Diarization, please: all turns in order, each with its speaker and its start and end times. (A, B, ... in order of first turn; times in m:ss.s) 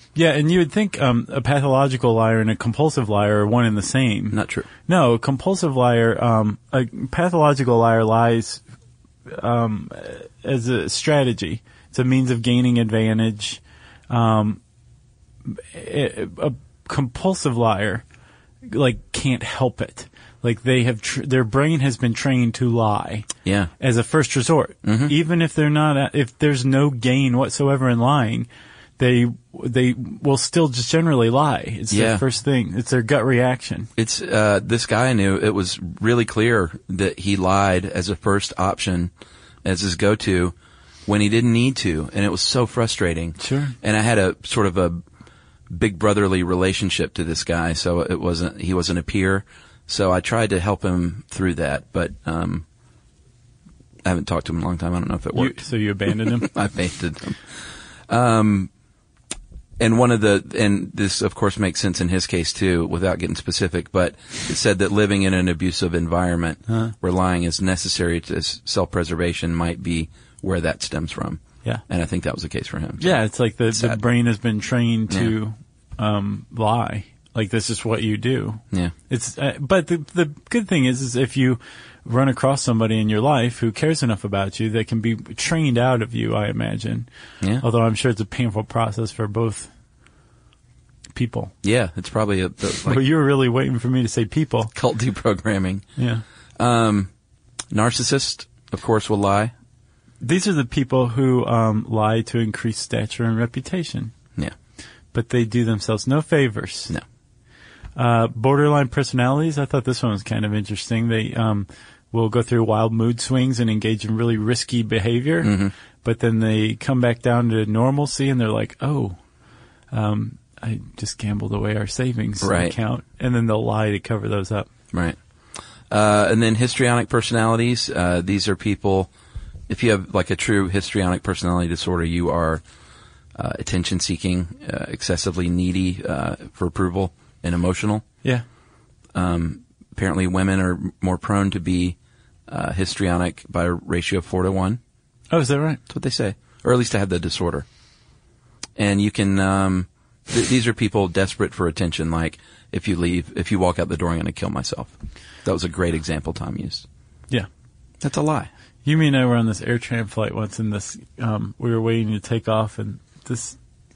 0:00.1-0:08.6 A
0:04.3-0:04.7 B
0:09.3-0:14.6 A
0:15.4-0:18.0 A
0:18.6-0:23.3 A
0:23.4-0:23.7 B
0:23.8-0:33.9 A
0:24.8-0:25.1 B
0:31.9-0:32.2 B
0:34.0-0:39.1 B
0:39.6-0:40.5 B
0:41.0-0:45.0 B
0:43.4-0:43.7 A
0:45.7-0:52.6 B
0:54.0-0:57.4 B
0:55.3-0:56.5 A
0:58.1-0:58.7 B
0:59.8-1:13.2 B
1:13.0-1:27.1 A
1:13.7-1:14.0 B
1:15.1-1:15.3 B
1:27.6-1:29.7 A
1:31.1-1:31.5 A
1:31.6-1:33.0 B
1:32.8-1:34.7 A
1:34.7-1:35.8 B
1:36.0-1:36.2 A
1:36.6-1:37.1 B
1:37.7-1:39.5 B
1:40.2-1:44.1 A
1:45.1-1:46.9 A
1:48.0-1:59.2 A
1:55.4-1:55.7 B
1:59.9-2:04.7 A
2:02.4-2:02.7 B
2:04.9-2:05.2 B
2:05.9-2:09.1 B
2:09.7-2:12.6 B
2:13.3-2:18.0 B
2:19.1-2:22.0 B
2:22.5-2:24.8 B
2:25.3-2:25.8 A
2:25.9-2:27.6 B
2:28.8-2:36.8 B
2:38.0-2:38.5 B
2:38.8-2:43.6 A